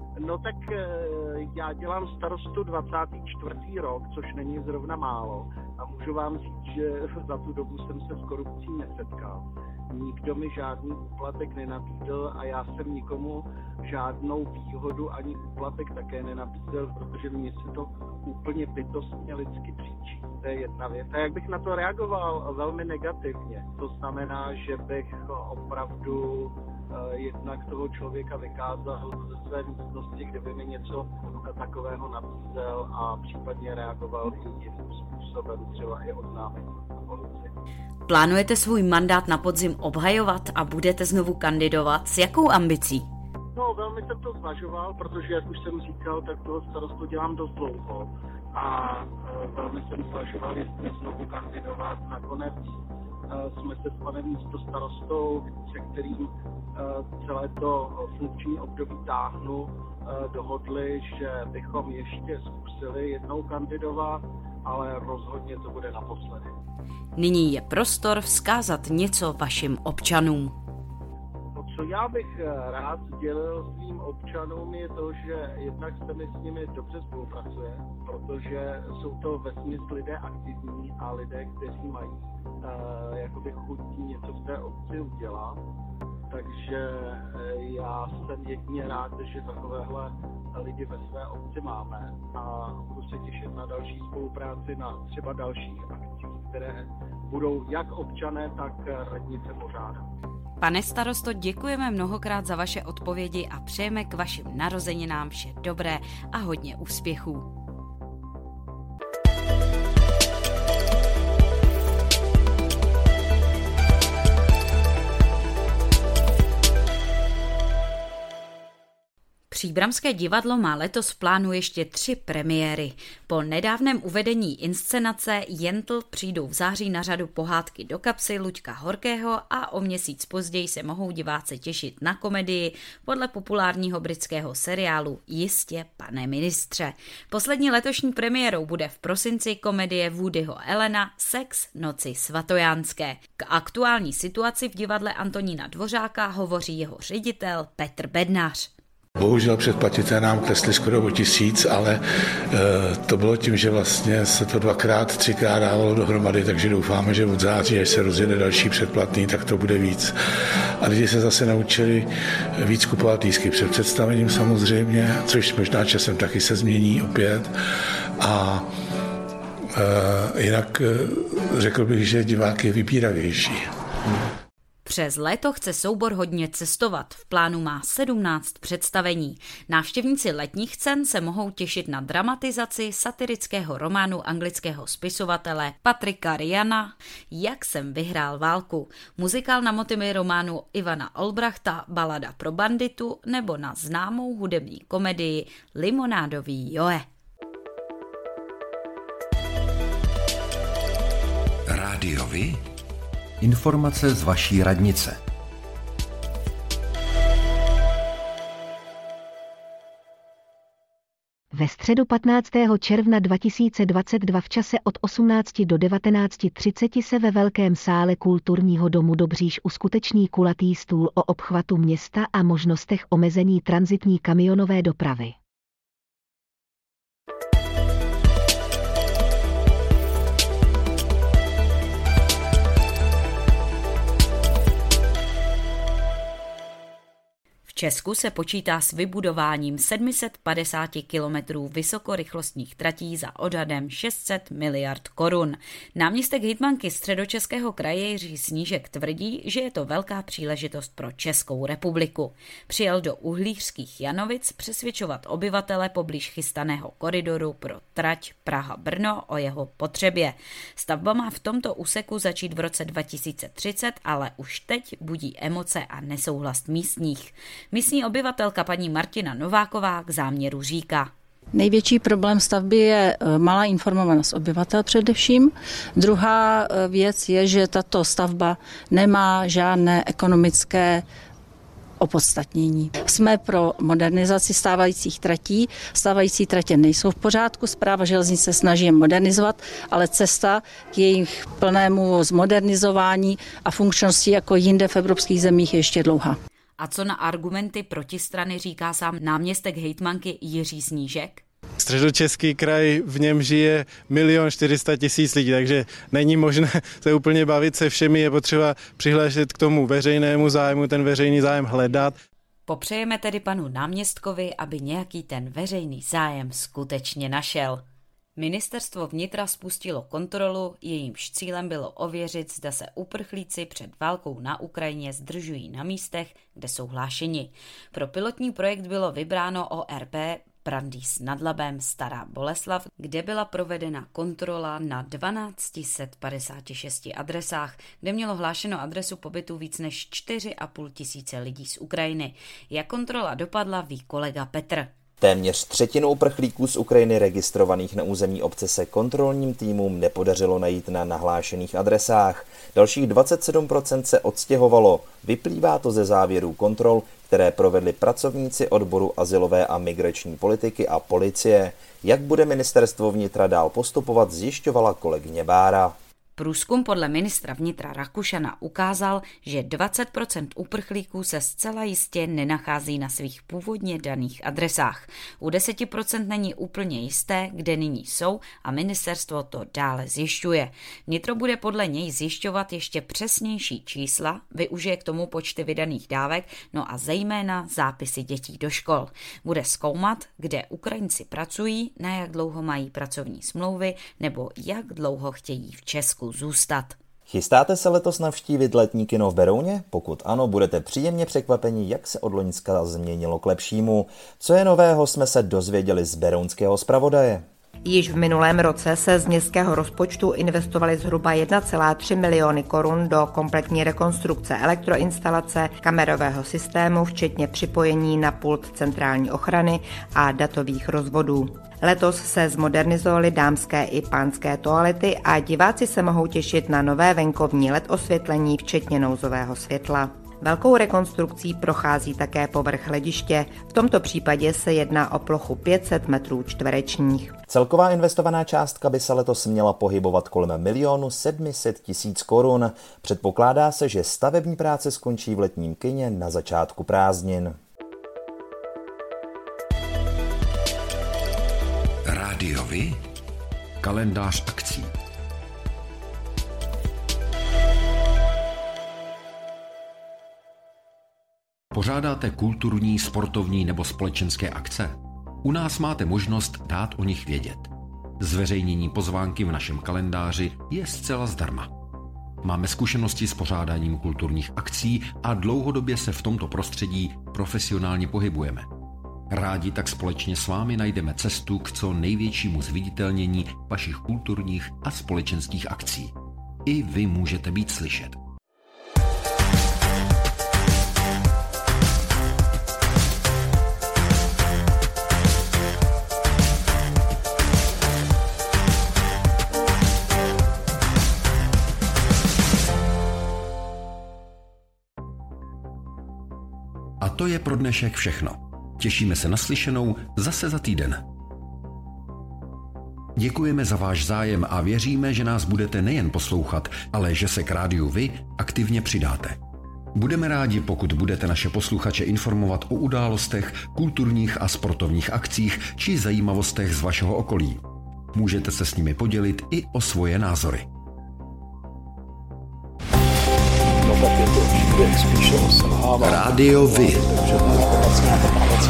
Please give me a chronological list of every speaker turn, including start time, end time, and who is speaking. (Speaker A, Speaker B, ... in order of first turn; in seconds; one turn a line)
Speaker A: 0.2-37.5
Speaker B: 38.1-43.1
Speaker A: 43.5-52.7
Speaker A: 53.3-66.5
Speaker B: 67.2-70.6
Speaker A: 71.5-85.6
Speaker A: 86.3-100.1
Speaker B: 100.6-107.5
Speaker B: 119.5-148.7
Speaker C: 149.2-160.2
Speaker C: 160.8-167.5
Speaker C: 168.2-168.7
Speaker C: 169.8-173.7
Speaker B: 174.8-197.1
Speaker D: 201.7-202.6
Speaker D: 203.4-205.2
Speaker E: 211.5-225.4
Speaker B: 237.7-271.1
Speaker F: 271.5-281.1
Speaker F: 282.0-296.4
Speaker B: 296.8-301.4
Speaker G: 301.8-312.2
Speaker B: 312.7-317.8
Speaker B: 318.4-344.9
Speaker H: 345.2-365.9
Speaker B: 366.4-397.0
Speaker H: 397.3-407.4
Speaker I: 407.9-437.3
Speaker H: 437.5-447.6
Speaker D: 452.1-453.0
Speaker D: 453.8-454.9
Speaker D: 461.7-471.7
Speaker D: 472.4-478.7
Speaker D: 479.3-486.1
Speaker D: 486.7-488.2
Speaker D: 507.0-511.0
Speaker D: 513.2-519.4
Speaker D: 520.0-527.6
Speaker D: 528.1-530.7
Speaker C: 533.9-537.8
Speaker D: 536.0-537.1